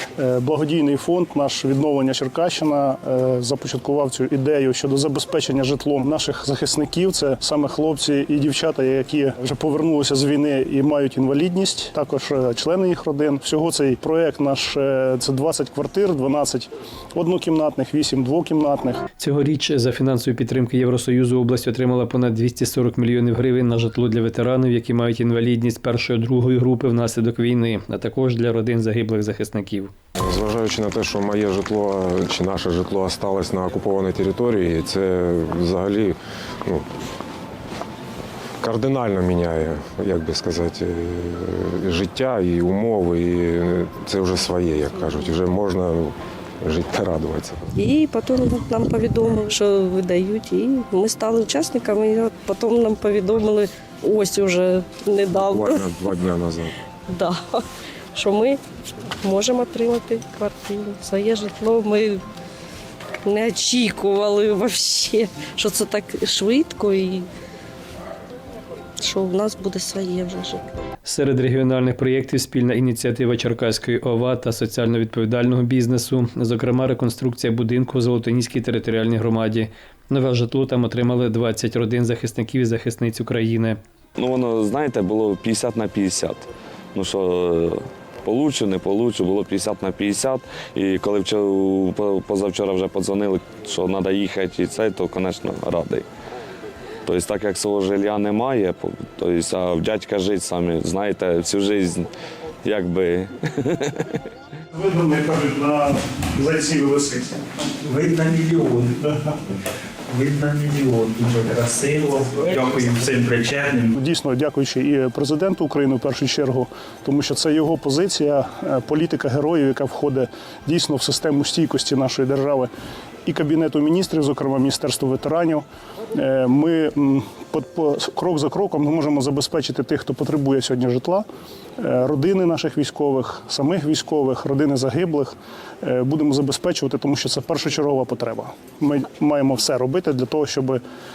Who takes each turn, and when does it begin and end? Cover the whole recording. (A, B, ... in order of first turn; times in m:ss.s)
0:00.2-0:19.0 A
0:19.2-0:29.9 B
0:30.2-0:36.8 C
0:38.6-0:47.7 C
0:47.8-0:56.0 D
0:55.3-0:56.8 C
0:57.1-1:02.2 D
1:03.2-1:07.3 D
1:09.0-1:10.7 D
1:11.0-1:23.8 B
1:24.2-1:36.1 E
1:37.1-1:42.1 E
1:42.6-1:44.2 E
1:44.7-1:47.4 A
1:47.8-1:49.2 F
1:50.1-1:54.0 F
1:54.0-2:02.7 A
2:03.3-2:11.2 A
2:11.8-2:20.8 A